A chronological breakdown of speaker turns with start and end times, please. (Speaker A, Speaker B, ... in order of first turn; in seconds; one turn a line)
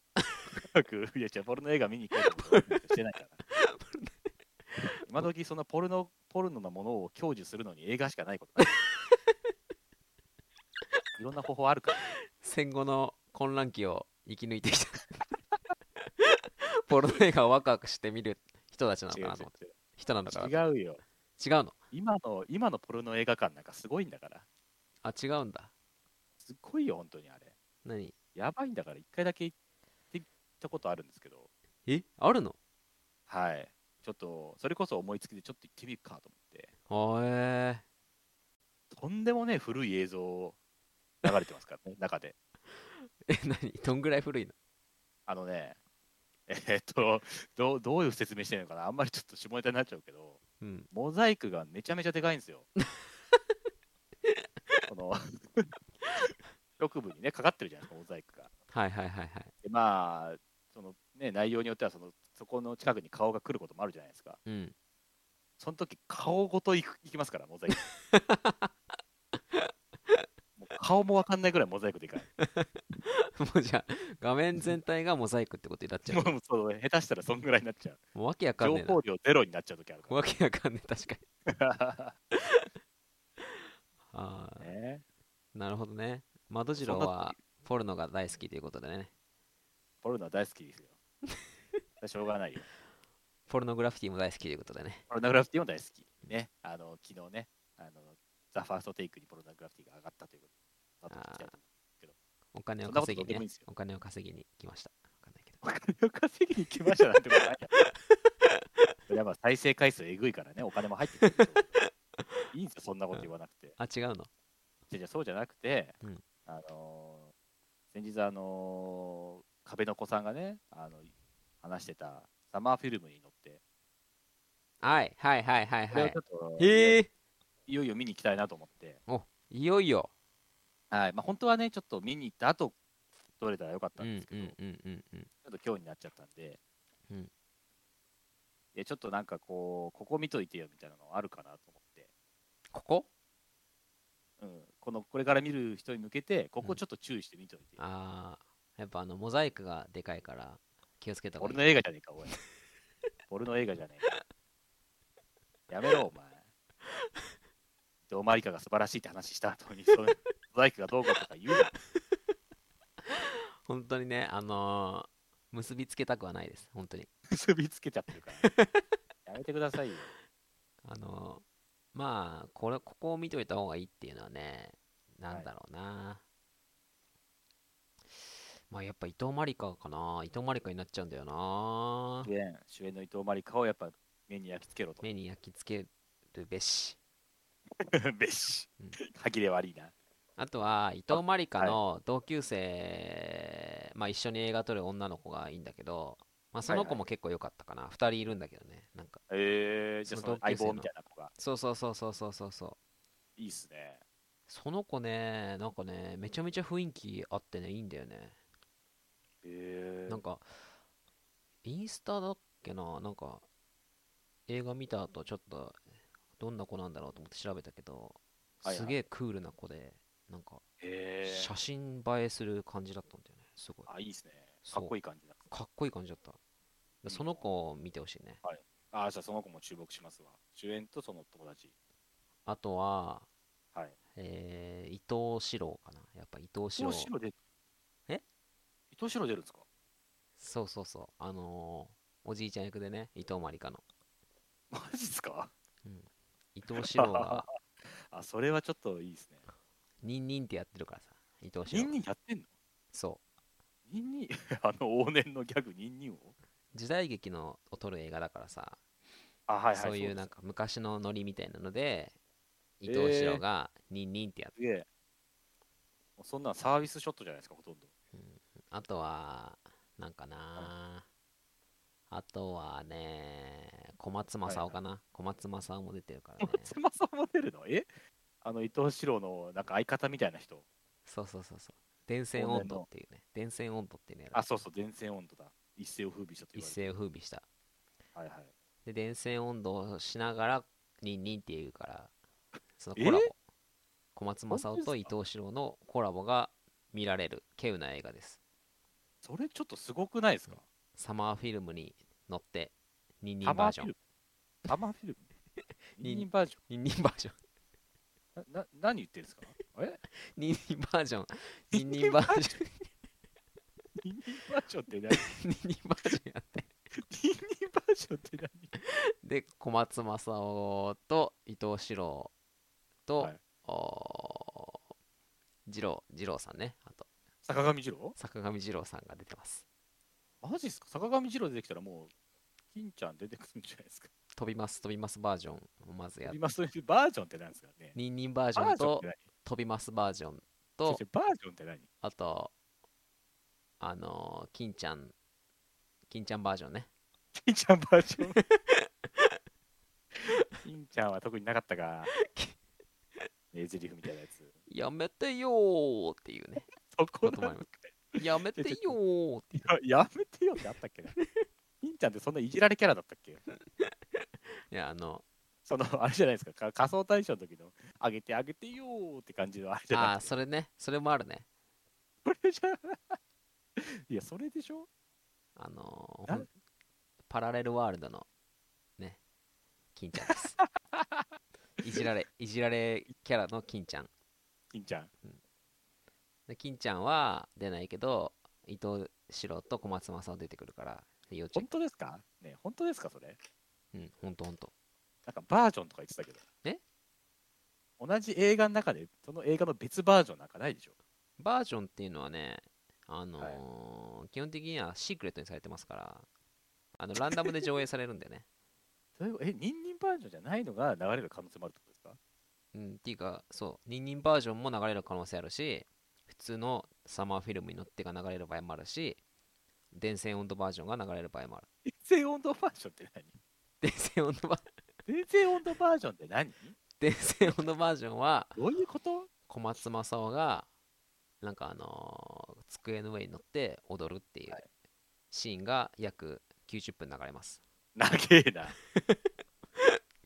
Speaker A: 0.2-0.6
Speaker B: 0.6-3.4
Speaker A: 2.2-2.8
Speaker A: 3.5-4.1
Speaker A: 4.8-5.2
Speaker B: 5.1-8.7
Speaker A: 8.6-9.2
Speaker B: 11.2-12.0
Speaker A: 12.2-15.3
Speaker A: 16.0-20.5
Speaker B: 19.1-19.7
Speaker B: 20.3-21.0
Speaker A: 21.4-21.7
Speaker B: 21.9-24.4
Speaker A: 25.0-25.7
Speaker B: 26.4-27.5
Speaker A: 27.8-28.1
Speaker B: 28.4-29.5
Speaker B: 30.1-31.5
Speaker A: 31.9-32.6
Speaker B: 33.3-36.7
Speaker A: 36.9-37.8
Speaker B: 38.9-40.6
Speaker B: 41.2-42.4
Speaker A: 42.9-44.5
Speaker B: 45.3-45.8
Speaker B: 46.5-52.7
Speaker A: 50.6-50.9
Speaker A: 54.2-54.8
Speaker B: 54.9-55.7
Speaker B: 56.8-58.5
Speaker A: 58.7-59.5
Speaker B: 59.6-64.4
Speaker A: 64.5-64.7
Speaker B: 65.6-67.9
Speaker A: 67.7-68.7
Speaker A: 69.5-70.2
Speaker B: 70.6-72.3
Speaker A: 72.4-76.3
Speaker B: 76.1-78.0
Speaker A: 78.1-79.0
Speaker B: 78.6-80.2
Speaker A: 80.1-81.2
Speaker B: 81.5-82.1
Speaker A: 82.3-82.7
Speaker A: 84.1-84.7
Speaker B: 84.6-85.0
Speaker A: 85.5-89.1
Speaker B: 86.8-87.3
Speaker B: 90.0-91.0
Speaker B: 92.0-92.7
Speaker A: 93.5-95.0
Speaker B: 95.1-100.5
Speaker B: 101.0-102.1
Speaker A: 101.1-101.5
Speaker A: 102.5-105.6
Speaker B: 102.8-103.6
Speaker B: 105.6-107.8
Speaker B: 109.1-111.8
Speaker A: 111.2-112.4
Speaker B: 112.5-113.8
Speaker A: 113.8-114.3
Speaker B: 114.9-116.0
Speaker B: 116.5-117.3
Speaker B: 117.9-123.6
Speaker A: 124.8-127.1
Speaker B: 125.9-127.0
Speaker B: 127.7-129.0
Speaker A: 129.1-130.1
Speaker B: 130.9-132.8
Speaker B: 133.4-134.6
Speaker A: 134.0-135.3
Speaker B: 135.4-136.6
Speaker B: 138.7-142.1
Speaker A: 142.7-143.1
Speaker B: 144.4-147.8
Speaker A: 147.8-151.6
Speaker B: 151.4-152.3
Speaker B: 153.3-154.1
Speaker B: 155.7-156.4
Speaker B: 158.1-161.8
Speaker A: 163.1-167.1
Speaker B: 167.3-168.4
Speaker A: 168.4-168.8
Speaker B: 169.3-170.1
Speaker A: 170.8-176.2
Speaker A: 178.7-182.3
Speaker B: 182.2-185.0
Speaker A: 185.0-187.0
Speaker B: 187.9-189.9
Speaker A: 190.4-199.2
Speaker B: 191.1-191.8
Speaker B: 196.7-197.0
Speaker B: 199.3-201.3
Speaker A: 200.0-202.8
Speaker B: 203.4-204.0
Speaker A: 204.5-208.3
Speaker B: 209.4-210.2
Speaker A: 210.1-210.5
Speaker A: 211.6-213.4
Speaker A: 214.5-215.8
Speaker A: 216.4-220.6
Speaker B: 218.6-219.0
Speaker B: 220.8-221.5
Speaker A: 221.2-223.9
Speaker B: 223.9-225.4
Speaker A: 224.7-224.9
Speaker A: 225.5-226.4
Speaker B: 227.0-227.4
Speaker A: 227.0-228.4
Speaker B: 228.4-231.7
Speaker A: 232.5-233.3
Speaker A: 234.2-237.1
Speaker B: 236.8-237.3
Speaker B: 238.9-239.7
Speaker A: 240.4-243.8
Speaker B: 244.7-245.5
Speaker A: 245.8-247.5
Speaker B: 246.8-249.4
Speaker A: 250.0-252.0
Speaker B: 251.7-252.5
Speaker A: 252.9-253.2
Speaker B: 253.9-256.4
Speaker A: 256.7-258.8
Speaker B: 259.5-260.3
Speaker A: 259.7-262.1
Speaker A: 262.8-264.5
Speaker B: 262.9-263.4
Speaker B: 264.6-264.9
Speaker B: 266.2-267.9
Speaker A: 268.1-271.1
Speaker A: 272.1-276.7
Speaker B: 274.5-274.8
Speaker B: 276.4-277.9
Speaker B: 278.4-280.6
Speaker A: 281.1-284.4
Speaker B: 282.4-282.9
Speaker B: 284.3-286.9
Speaker A: 286.5-287.4
Speaker B: 288.1-288.5
Speaker A: 288.9-292.1
Speaker A: 292.8-293.4
Speaker B: 293.0-293.3
Speaker A: 294.1-298.4
Speaker B: 294.5-295.1
Speaker B: 299.2-300.6
Speaker A: 300.5-303.9
Speaker B: 303.4-304.0
Speaker B: 304.7-305.3
Speaker A: 305.9-307.4
Speaker B: 306.0-306.6
Speaker B: 308.4-310.0
Speaker A: 310.2-312.9
Speaker B: 311.7-312.5
Speaker B: 314.0-315.3
Speaker A: 315.1-316.7
Speaker B: 317.1-318.7
Speaker A: 319.1-322.3
Speaker A: 323.1-324.8
Speaker A: 325.6-327.1
Speaker B: 327.5-328.1
Speaker A: 328.1-329.6
Speaker B: 330.4-332.1
Speaker B: 332.7-334.1
Speaker A: 334.4-336.4
Speaker B: 336.2-338.0
Speaker A: 337.9-341.0
Speaker B: 338.6-339.2
Speaker B: 340.9-341.9
Speaker A: 342.0-342.5
Speaker A: 343.8-345.1
Speaker A: 346.1-346.9
Speaker B: 347.4-348.4
Speaker A: 348.4-349.3
Speaker B: 350.6-352.1
Speaker A: 352.1-352.6
Speaker B: 353.5-354.5
Speaker A: 354.7-356.7
Speaker B: 356.9-358.9
Speaker A: 357.2-357.7
Speaker A: 358.2-359.7
Speaker B: 359.5-361.1
Speaker B: 361.8-363.4
Speaker A: 363.8-365.2
Speaker B: 365.6-370.3
Speaker A: 369.9-371.5
Speaker B: 372.2-373.2
Speaker B: 373.8-374.9
Speaker A: 375.6-376.5
Speaker A: 377.3-378.2
Speaker A: 379.9-380.6
Speaker B: 380.2-381.2
Speaker A: 381.8-384.1
Speaker B: 384.7-385.1
Speaker A: 386.5-391.7
Speaker B: 391.5-393.4
Speaker A: 393.9-394.7
Speaker B: 395.2-396.4
Speaker B: 398.0-400.9
Speaker A: 401.4-406.3
Speaker A: 407.0-408.4
Speaker B: 409.2-412.2
Speaker A: 412.7-419.2
Speaker A: 419.9-421.6
Speaker B: 421.9-423.4
Speaker A: 423.8-424.7
Speaker B: 425.1-426.8
Speaker A: 427.0-428.5
Speaker B: 427.4-427.7
Speaker B: 428.6-429.3
Speaker A: 429.5-430.7
Speaker A: 431.4-434.6
Speaker A: 435.3-437.6
Speaker B: 438.0-438.8